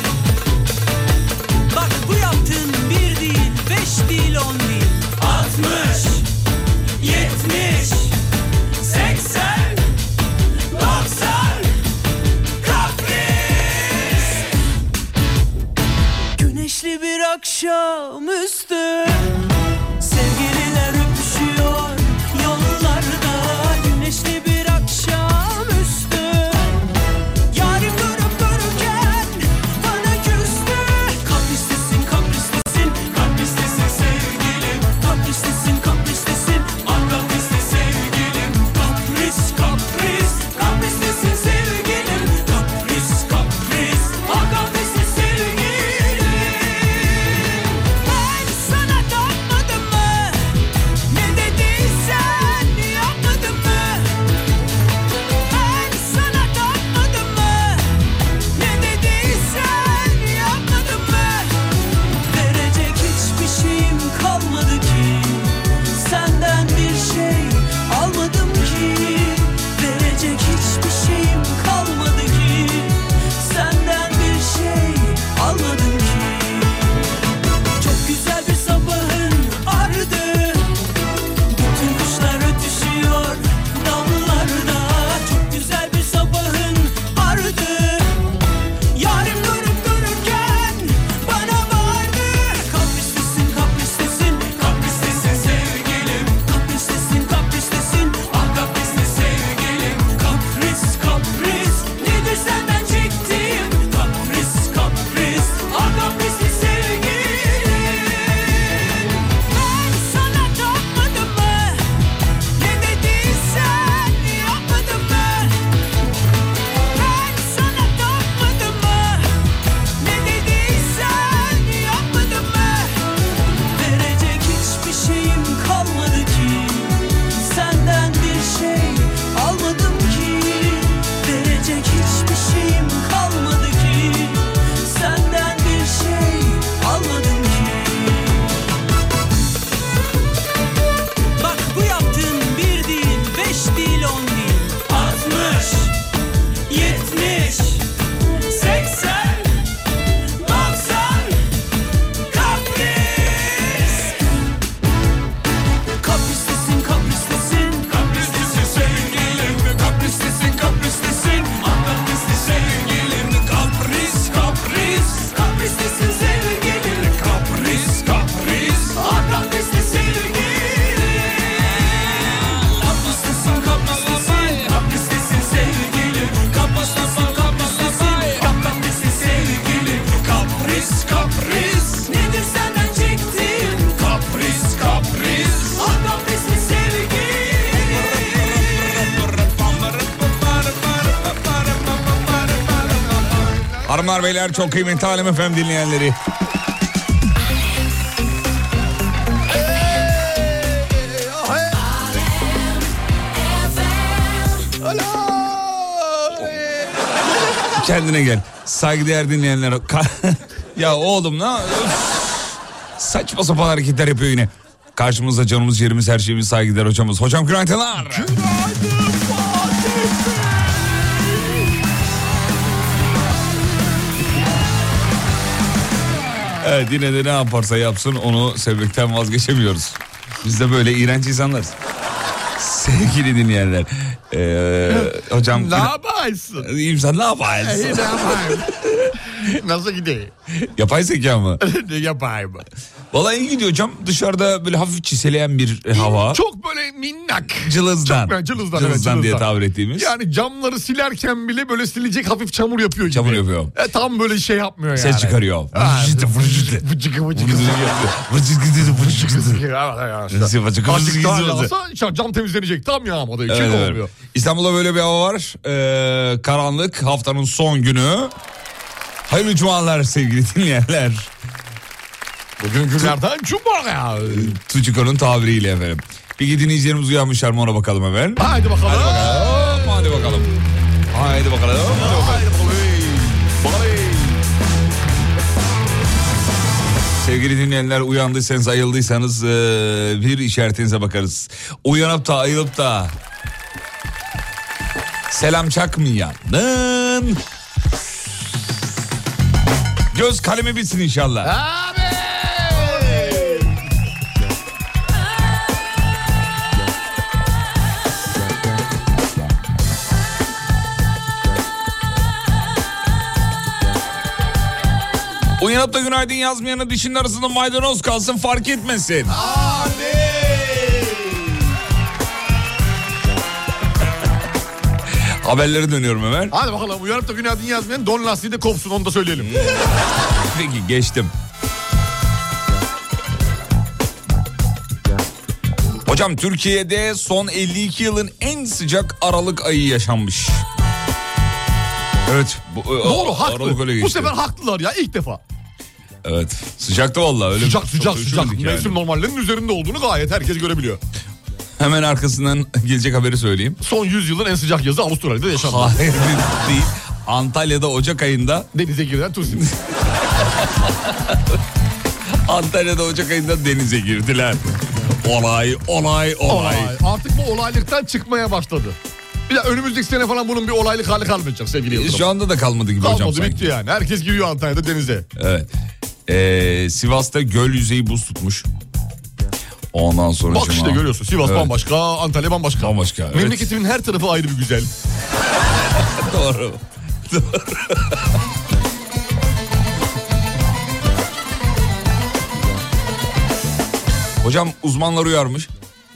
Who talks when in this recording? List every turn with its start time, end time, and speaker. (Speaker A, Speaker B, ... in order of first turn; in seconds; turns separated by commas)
Speaker A: 1.7-6.2, Speaker A: 7.0-8.2, Speaker A: 8.8-9.8, Speaker A: 10.7-11.7, Speaker A: 12.6-14.4, Speaker A: 16.4-19.3, Speaker A: 20.0-26.8, Speaker A: 27.5-50.5, Speaker A: 51.1-54.2, Speaker A: 55.4-58.0, Speaker A: 58.5-61.6, Speaker A: 62.3-77.1, Speaker A: 77.8-80.7, Speaker A: 81.5-88.1, Speaker A: 88.9-111.9, Speaker A: 112.5-115.6, Speaker A: 116.8-119.3, Speaker A: 120.0-123.0, Speaker A: 123.7-138.6, Speaker A: 141.4-145.9, Speaker A: 146.7-147.9, Speaker A: 148.4-149.6, Speaker A: 150.4-151.4, Speaker A: 152.3-154.2, Speaker A: 156.0-189.3, Speaker B: 177.3-178.5, Speaker B: 188.2-191.5, Speaker C: 193.1-194.9, Speaker B: 193.8-196.2, Speaker C: 199.8-201.8, Speaker C: 204.8-207.7, Speaker B: 207.8-218.4, Speaker C: 218.0-221.6, Speaker B: 226.6-231.7, Speaker B: 232.6-235.9, Speaker C: 234.9-236.7, Speaker B: 236.6-238.7, Speaker C: 237.4-240.3, Speaker B: 240.8-241.6, Speaker C: 241.6-242.6, Speaker B: 243.1-246.4, Speaker C: 245.9-258.0, Speaker B: 247.6-250.1, Speaker B: 253.1-253.7, Speaker B: 254.9-259.6, Speaker C: 259.3-264.1, Speaker B: 260.3-261.7, Speaker B: 263.4-268.3, Speaker B: 269.3-271.3, Speaker C: 272.6-274.5, Speaker B: 274.3-280.5, Speaker C: 278.4-280.0, Speaker B: 281.1-282.4, Speaker C: 281.9-284.4, Speaker B: 287.2-293.1, Speaker B: 295.3-297.4, Speaker B: 300.1-301.5, Speaker C: 301.4-303.7, Speaker B: 315.6-319.4, Speaker C: 319.3-321.5, Speaker B: 325.4-326.5, Speaker C: 326.5-329.6, Speaker B: 329.4-329.8, Speaker B: 330.4-331.3, Speaker B: 336.0-340.6, Speaker B: 342.2-344.3, Speaker C: 343.0-345.4, Speaker B: 346.2-349.0, Speaker C: 347.6-351.0, Speaker B: 351.8-353.8, Speaker C: 353.8-356.0, Speaker B: 355.6-358.7, Speaker C: 358.7-359.7, Speaker B: 359.5-361.4, Speaker B: 362.4-364.6, Speaker B: 365.2-366.9, Speaker C: 366.5-369.0, Speaker C: 369.5-372.3, Speaker B: 371.9-373.8, Speaker C: 373.0-375.3, Speaker B: 375.4-375.7, Speaker B: 376.3-378.7, Speaker B: 379.9-381.7, Speaker C: 380.5-384.9, Speaker B: 382.8-383.7, Speaker B: 385.9-388.3, Speaker B: 394.4-395.7